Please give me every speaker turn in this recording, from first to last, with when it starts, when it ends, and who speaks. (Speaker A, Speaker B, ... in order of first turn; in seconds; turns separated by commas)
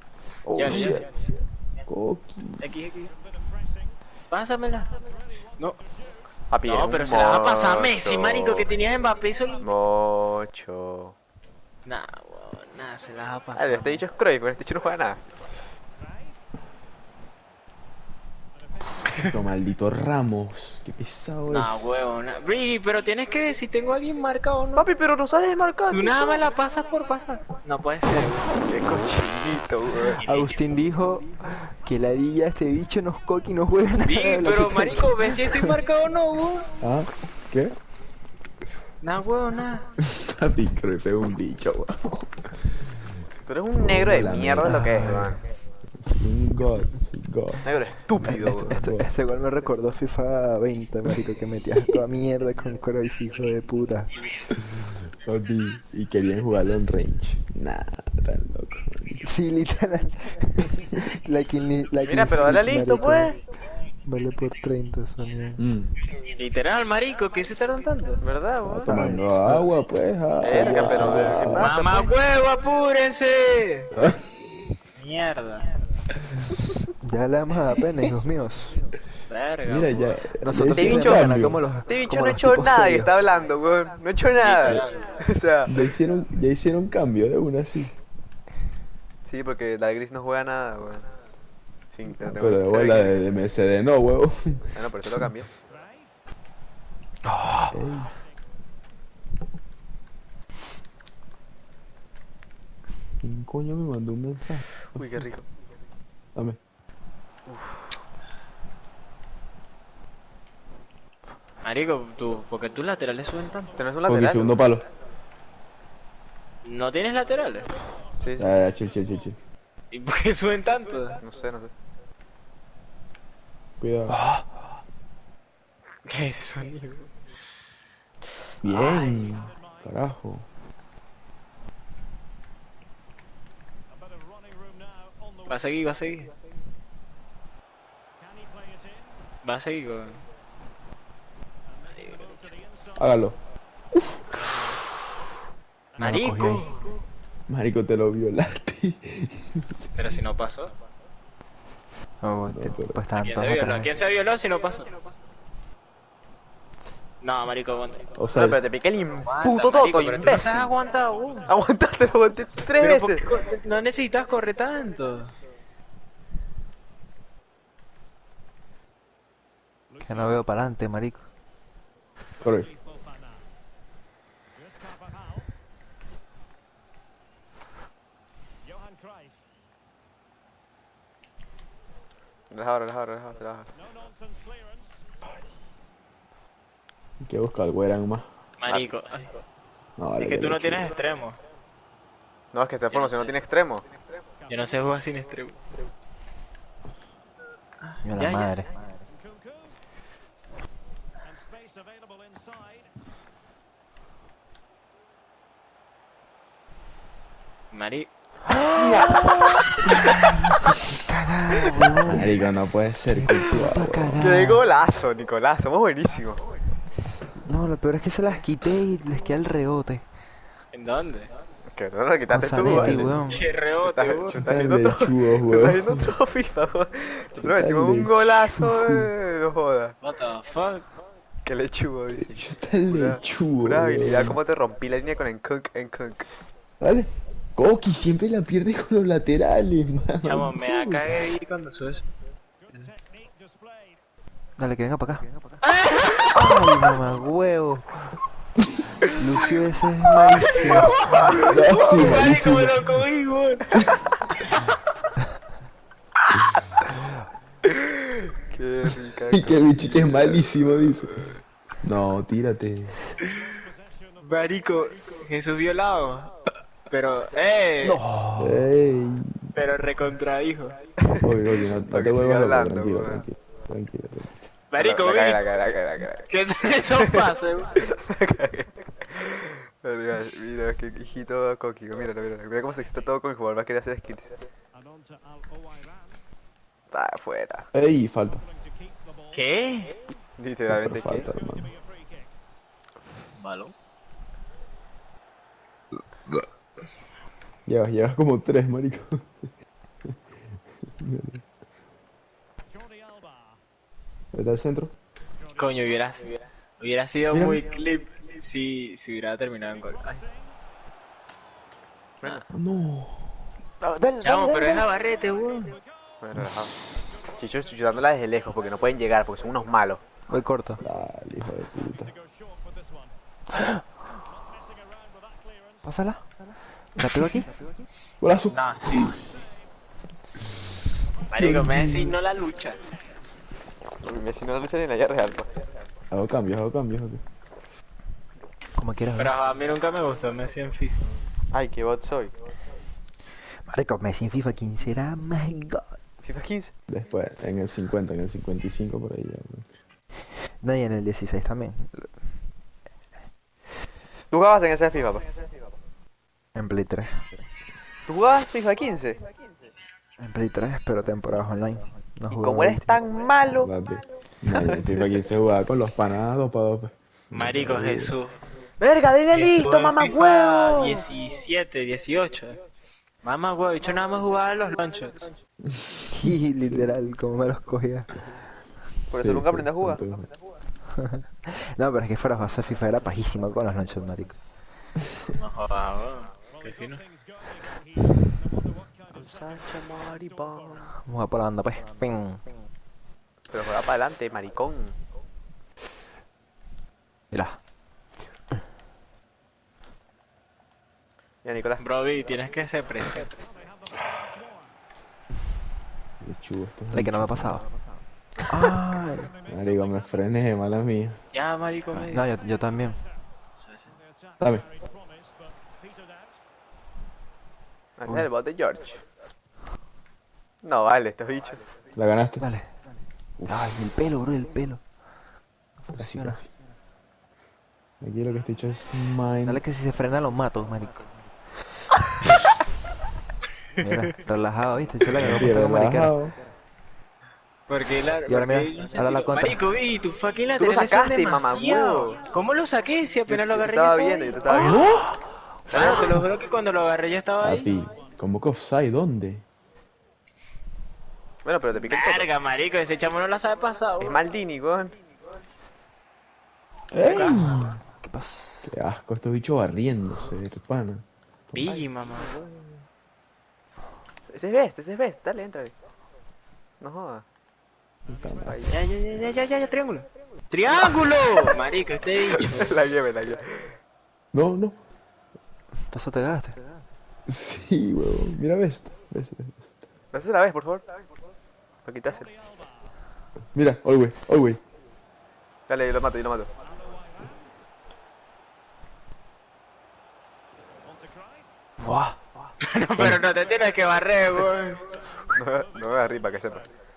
Speaker A: 0.5-1.1, Speaker B: 0.6-1.1, Speaker A: 1.9-2.7, Speaker B: 2.6-3.1, Speaker B: 4.3-4.9, Speaker C: 6.5-8.7, Speaker B: 6.7-9.7, Speaker C: 9.6-11.2, Speaker B: 11.9-14.1, Speaker C: 13.6-15.2, Speaker A: 19.2-21.9, Speaker B: 21.5-24.9, Speaker C: 24.8-26.4, Speaker B: 25.9-28.5, Speaker D: 28.1-28.3, Speaker C: 28.5-30.2, Speaker B: 30.1-30.6, Speaker D: 30.2-35.8, Speaker B: 34.0-36.7, Speaker A: 36.8-37.8, Speaker B: 39.0-39.9, Speaker A: 40.0-42.4, Speaker C: 43.5-45.4, Speaker A: 43.8-45.3, Speaker D: 44.6-45.3, Speaker A: 46.0-47.7, Speaker C: 47.6-48.8, Speaker D: 48.2-54.1, Speaker A: 48.7-49.1, Speaker A: 55.2-59.3, Speaker D: 59.2-63.4, Speaker C: 62.0-63.4, Speaker D: 64.0-65.6, Speaker A: 65.6-65.9, Speaker B: 66.4-68.2, Speaker C: 68.2-69.2, Speaker A: 68.7-71.7, Speaker D: 68.8-69.6, Speaker C: 70.4-72.2, Speaker D: 70.9-71.2, Speaker B: 71.6-73.9, Speaker A: 74.0-74.2, Speaker B: 75.0-75.7, Speaker D: 77.0-78.8, Speaker B: 79.3-80.2, Speaker A: 79.7-81.6, Speaker D: 80.4-83.1, Speaker C: 80.8-85.7, Speaker B: 84.3-85.2, Speaker A: 85.7-87.9, Speaker C: 89.2-91.1, Speaker C: 91.9-93.2, Speaker A: 92.2-95.2, Speaker C: 94.7-95.5, Speaker D: 97.2-97.8, Speaker A: 97.7-98.1, Speaker A: 103.2-105.0, Speaker C: 105.0-105.5, Speaker C: 107.5-107.9, Speaker B: 111.6-113.7, Speaker C: 113.8-114.6, Speaker A: 114.1-114.9, Speaker B: 116.7-117.7, Speaker C: 118.2-118.6, Speaker A: 118.4-119.4, Speaker B: 119.9-121.2, Speaker C: 121.2-121.7, Speaker A: 123.8-124.2, Speaker D: 124.1-124.5, Speaker B: 126.0-127.1, Speaker A: 128.6-130.5, Speaker B: 128.7-129.2, Speaker B: 135.5-136.3, Speaker B: 139.4-140.2, Speaker B: 141.9-142.5, Speaker A: 143.0-143.4, Speaker B: 146.0-146.8, Speaker D: 146.0-146.7, Speaker A: 147.5-150.0, Speaker B: 150.0-150.7, Speaker D: 152.2-153.9, Speaker A: 152.5-153.0, Speaker B: 153.2-154.9, Speaker B: 157.2-158.1, Speaker A: 158.2-158.6, Speaker C: 158.3-160.7, Speaker B: 159.3-161.5, Speaker C: 161.5-163.2, Speaker B: 162.8-165.3, Speaker D: 170.0-171.3, Speaker A: 172.4-172.7, Speaker C: 182.5-183.7, Speaker A: 187.2-188.3, Speaker B: 188.6-189.3, Speaker A: 190.0-190.9, Speaker B: 190.2-191.4, Speaker C: 192.5-193.8, Speaker B: 192.9-193.3, Speaker B: 194.5-195.6, Speaker B: 197.8-198.5, Speaker D: 198.0-198.7, Speaker B: 207.7-208.1, Speaker D: 208.6-212.4, Speaker A: 208.8-209.4, Speaker A: 212.1-214.3, Speaker D: 213.1-214.7, Speaker C: 214.2-216.4, Speaker D: 217.4-220.1, Speaker B: 220.7-221.3, Speaker C: 221.8-223.3, Speaker D: 222.3-223.4, Speaker A: 222.7-223.1, Speaker B: 223.3-224.4, Speaker C: 223.8-229.9, Speaker A: 224.3-226.0, Speaker A: 227.4-229.1, Speaker B: 230.0-230.8, Speaker C: 231.5-232.4, Speaker A: 232.2-234.4, Speaker C: 232.9-236.3, Speaker A: 236.8-241.1, Speaker B: 240.2-242.0, Speaker D: 244.6-245.3, Speaker B: 245.6-246.5, Speaker D: 246.3-247.9, Speaker D: 249.2-251.5, Speaker B: 250.5-254.0, Speaker A: 251.4-252.8, Speaker C: 258.5-261.1, Speaker A: 259.3-261.2, Speaker A: 261.8-262.9, Speaker B: 263.2-263.6, Speaker B: 264.2-266.3, Speaker B: 266.9-268.0, Speaker D: 267.8-268.7, Speaker A: 268.4-269.6, Speaker B: 269.6-270.8, Speaker C: 271.0-273.2, Speaker A: 271.2-274.3, Speaker B: 274.7-275.5, Speaker C: 274.8-276.3, Speaker B: 276.3-277.8, Speaker C: 276.9-284.4, Speaker C: 286.9-287.7, Speaker A: 287.7-288.4, Speaker B: 289.3-289.9, Speaker C: 290.4-291.3, Speaker A: 290.7-291.7, Speaker B: 293.4-293.7, Speaker A: 297.7-299.5, Speaker A: 301.0-301.4, Speaker A: 304.3-304.9, Speaker B: 305.6-310.2, Speaker A: 307.3-307.6, Speaker C: 312.2-312.5, Speaker A: 312.5-313.3, Speaker D: 313.8-314.9, Speaker B: 314.2-315.8, Speaker C: 316.2-316.7, Speaker C: 317.4-320.0, Speaker D: 320.3-320.8, Speaker A: 320.8-322.1, Speaker D: 323.5-323.8, Speaker D: 325.8-326.2, Speaker D: 326.9-327.5, Speaker A: 328.2-329.1, Speaker B: 328.5-329.2, Speaker B: 331.3-332.8, Speaker A: 331.4-332.1, Speaker C: 334.0-335.5, Speaker A: 336.1-337.2, Speaker D: 338.8-339.4, Speaker B: 339.2-341.1, Speaker C: 341.5-342.3, Speaker D: 343.7-346.0, Speaker C: 346.2-346.7, Speaker A: 346.9-349.7, Speaker D: 350.5-352.1, Speaker C: 354.3-355.3, Speaker D: 356.6-357.3, Speaker C: 358.1-359.3, Speaker D: 360.2-363.0, Speaker C: 362.3-363.7, Speaker A: 363.6-368.1, Speaker C: 364.5-364.9, Speaker B: 367.4-368.4, Speaker C: 368.8-371.1, Speaker B: 369.3-372.6, Speaker B: 373.2-375.3, Speaker D: 376.1-378.1, Speaker C: 379.1-380.0, Speaker A: 379.2-380.3, Speaker D: 380.9-384.4, Speaker B: 385.4-387.0, Speaker C: 389.1-390.9, Speaker D: 391.0-392.4, Speaker C: 393.5-395.0, Speaker D: 397.3-397.6, Speaker C: 401.4-401.8, Speaker B: 401.8-403.4, Speaker A: 406.2-407.6, Speaker D: 406.9-407.7, Speaker D: 408.5-409.3, Speaker A: 409.5-411.2, Speaker B: 411.3-412.3, Speaker D: 411.9-413.0, Speaker B: 413.6-414.0, Speaker C: 418.0-419.0, Speaker C: 420.6-421.6, Speaker A: 421.9-422.4, Speaker D: 422.4-422.7, Speaker A: 423.4-424.0, Speaker D: 423.5-424.8, Speaker D: 425.9-426.4, Speaker A: 426.0-426.5, Speaker A: 428.0-429.6, Speaker D: 429.4-431.1, Speaker D: 433.8-436.1, Speaker A: 435.2-436.3, Speaker B: 437.7-444.7, Speaker D: 438.3-439.6, Speaker C: 440.6-442.2, Speaker C: 443.3-444.9, Speaker D: 444.5-444.9, Speaker A: 444.6-445.1, Speaker C: 445.7-446.2, Speaker B: 445.7-447.7, Speaker A: 447.4-449.4, Speaker C: 451.4-452.3, Speaker B: 451.9-454.2, Speaker C: 454.0-455.0, Speaker A: 456.9-457.8, Speaker B: 457.0-457.7, Speaker D: 457.8-458.7, Speaker A: 458.6-461.8, Speaker B: 461.5-462.4, Speaker C: 464.3-465.7, Speaker C: 466.8-467.2, Speaker A: 468.1-468.6, Speaker C: 468.4-468.8, Speaker B: 468.7-472.7, Speaker C: 472.4-473.7, Speaker A: 474.3-474.8, Speaker D: 475.9-476.6, Speaker A: 477.3-479.7, Speaker C: 480.1-480.9, Speaker C: 481.9-482.3, Speaker A: 483.6-484.6, Speaker C: 485.7-486.5, Speaker D: 491.8-492.2, Speaker B: 492.6-494.8, Speaker C: 495.4-496.7